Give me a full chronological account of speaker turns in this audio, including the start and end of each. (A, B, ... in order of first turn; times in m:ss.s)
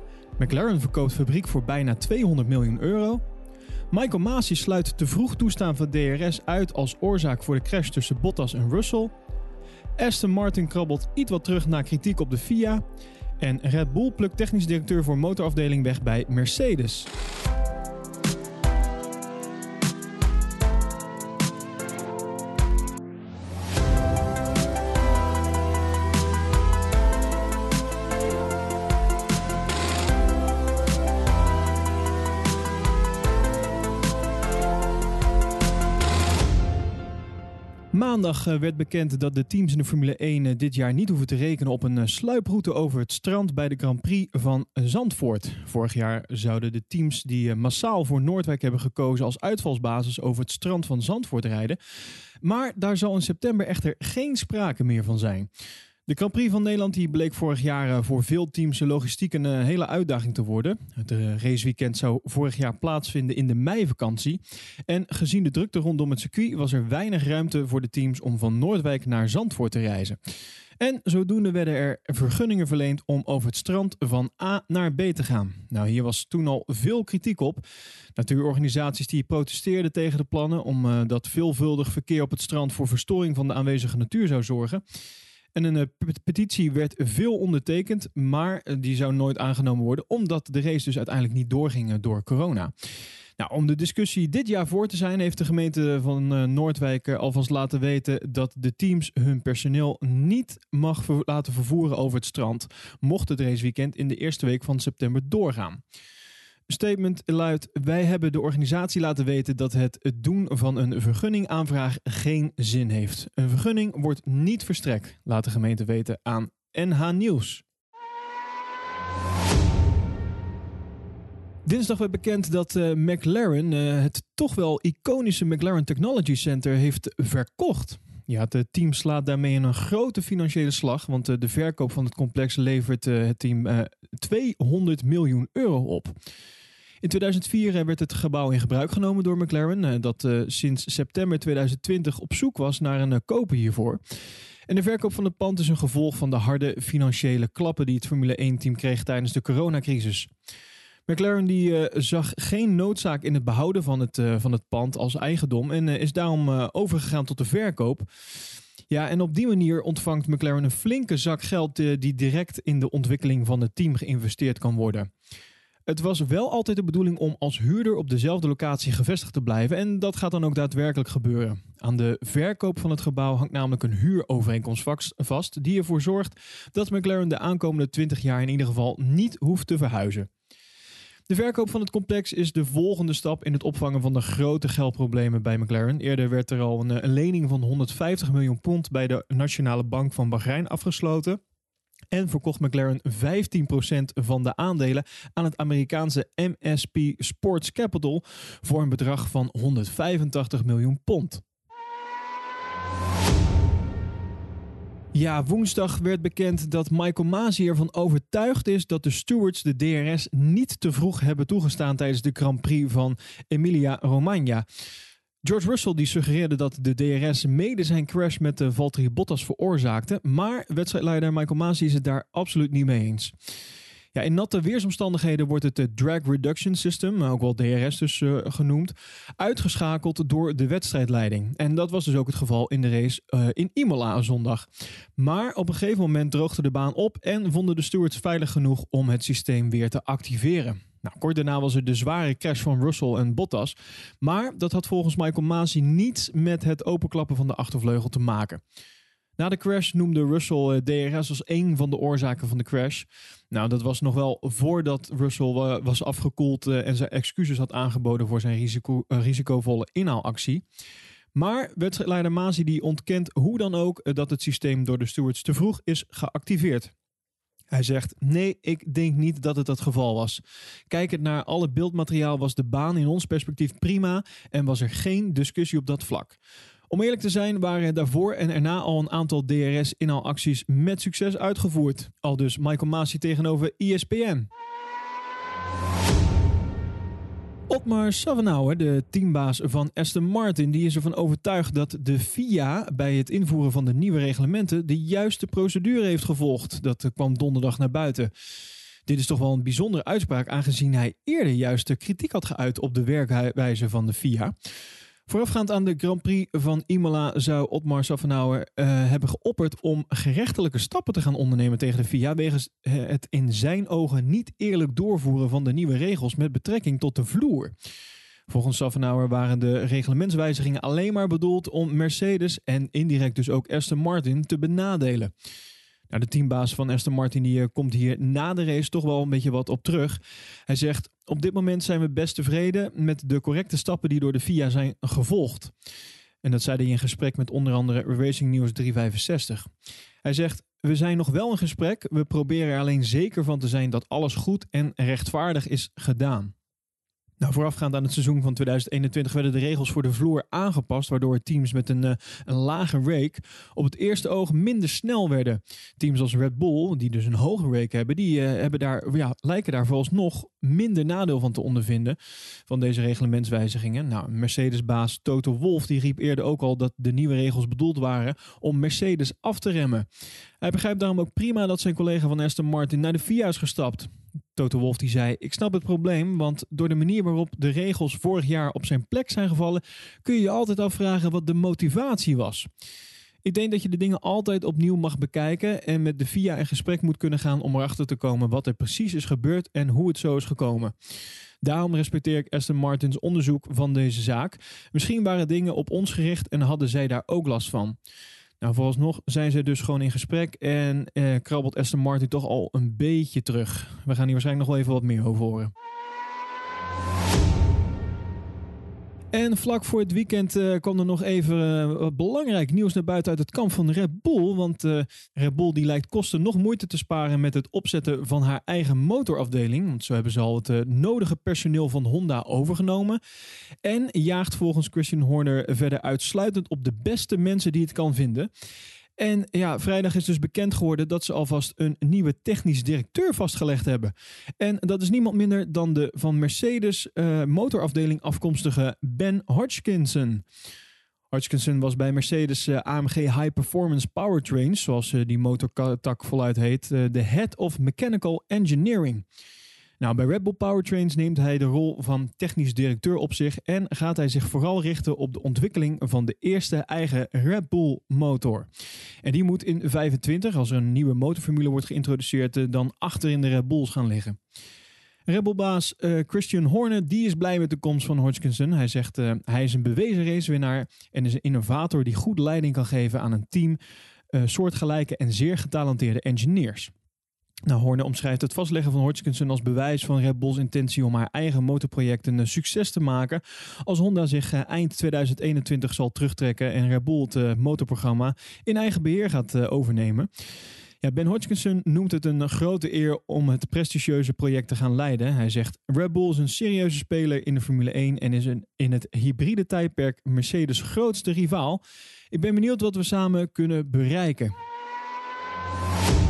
0:00.4-0:03.2 A
0:03.9-0:09.1 A
0:10.0-0:12.8 A
0:13.4-0:17.1 A
0:37.9-0:51.8 A
0:52.4-0:55.5 A
0:56.1-1:10.2 A
1:10.8-1:17.6 A
1:18.2-1:24.8 A
1:25.6-1:32.7 A
1:33.4-1:45.8 A
1:46.7-1:57.6 A
2:01.7-2:16.1 A
2:17.0-2:24.0 A
2:24.7-2:30.3 A
2:31.1-2:38.1 A
2:38.9-2:45.1 A
2:45.9-3:00.3 A
3:01.3-3:11.4 A
3:12.1-3:21.4 A
3:25.1-3:34.7 A
3:35.4-3:43.3 A
3:44.1-4:08.6 A
4:09.4-4:20.6 A
4:21.3-4:26.9 A
4:27.7-4:36.4 A
4:36.9-4:44.5 A
4:47.7-4:58.3 A
4:59.1-5:04.5 A
5:05.3-5:17.7 A
5:18.5-5:25.3 A
5:26.1-5:35.7 A
5:36.4-5:39.7 A
5:40.2-5:46.5 A
5:47.4-6:10.1 A
6:10.6-6:22.7 A
6:23.4-6:30.9 A
6:31.6-6:38.0 A
6:38.6-6:45.7 A
6:49.3-7:03.2 A
7:03.8-7:08.5 A
7:09.2-7:20.4 A
7:21.3-7:29.2 A
7:30.0-7:38.7 A
7:39.2-7:44.4 A
7:45.3-7:53.8 A
7:54.3-7:56.9 A
7:57.7-8:10.3 A
8:11.0-8:24.6 A